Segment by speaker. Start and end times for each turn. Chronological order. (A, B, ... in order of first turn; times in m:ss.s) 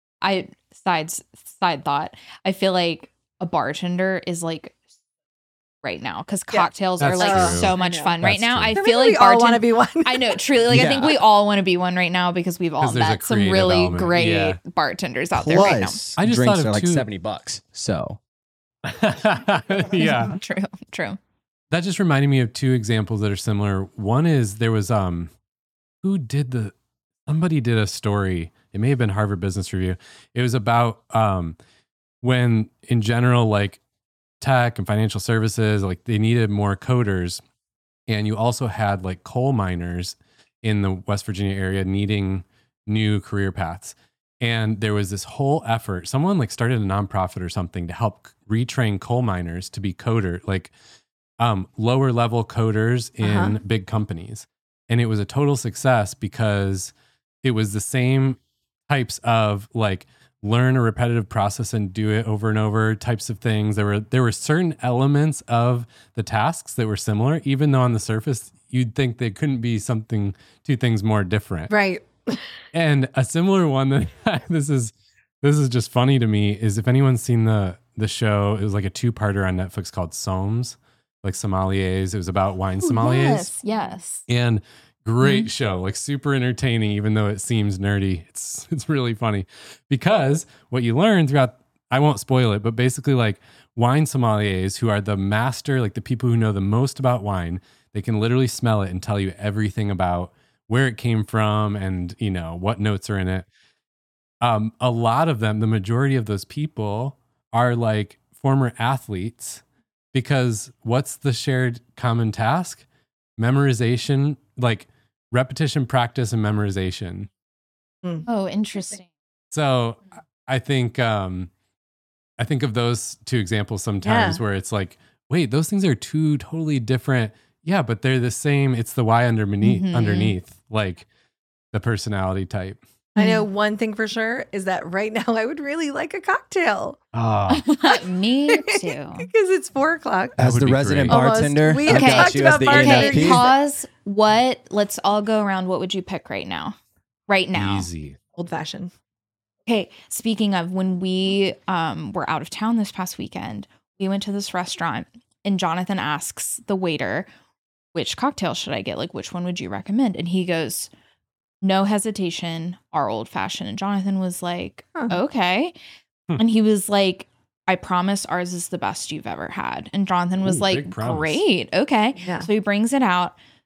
0:00.2-0:04.8 A
0:05.8-0:16.0 A
0:06.5-0:08.1 B
0:07.0-0:07.7 C
0:08.2-0:08.7 D
0:08.8-0:10.4 B
0:10.7-0:11.2 D
0:12.8-0:14.6 C
0:15.4-0:18.2 D
0:16.2-0:17.1 C
0:18.8-0:20.4 C
0:20.0-0:21.2 A
0:21.7-0:25.3 C
0:26.0-0:26.7 C
0:27.3-0:31.6 C
0:32.2-0:33.8 C
0:34.4-0:37.4 C
0:38.1-0:50.7 C
0:51.4-1:11.7 C
0:53.2-0:53.6 B
1:11.7-1:12.4 B
1:12.7-1:23.5 C
1:22.8-1:24.3 A
1:24.3-1:43.5 C
1:44.4-1:49.6 C
1:50.1-1:52.8 C
1:53.4-1:57.3 C
1:58.3-1:59.1 A
1:59.5-2:01.5 C
2:02.4-2:11.1 C
2:04.0-2:04.4 B
2:09.6-2:10.3 A
2:11.7-2:12.8 C
2:13.2-2:17.0 B
2:13.2-2:13.4 A
2:17.1-2:17.7 C
2:17.5-2:19.3 A
2:17.9-2:20.4 B
2:20.4-2:23.5 D
2:20.4-2:21.2 C
2:21.1-2:23.5 B
2:21.9-2:26.8 A
2:27.3-2:27.9 A
2:27.5-2:28.2 C
2:28.4-2:28.9 B
2:29.7-2:37.3 A
2:37.9-2:40.9 A
2:41.6-2:45.8 A
2:46.4-2:53.4 A
2:50.4-2:51.4 C
2:52.2-2:52.5 B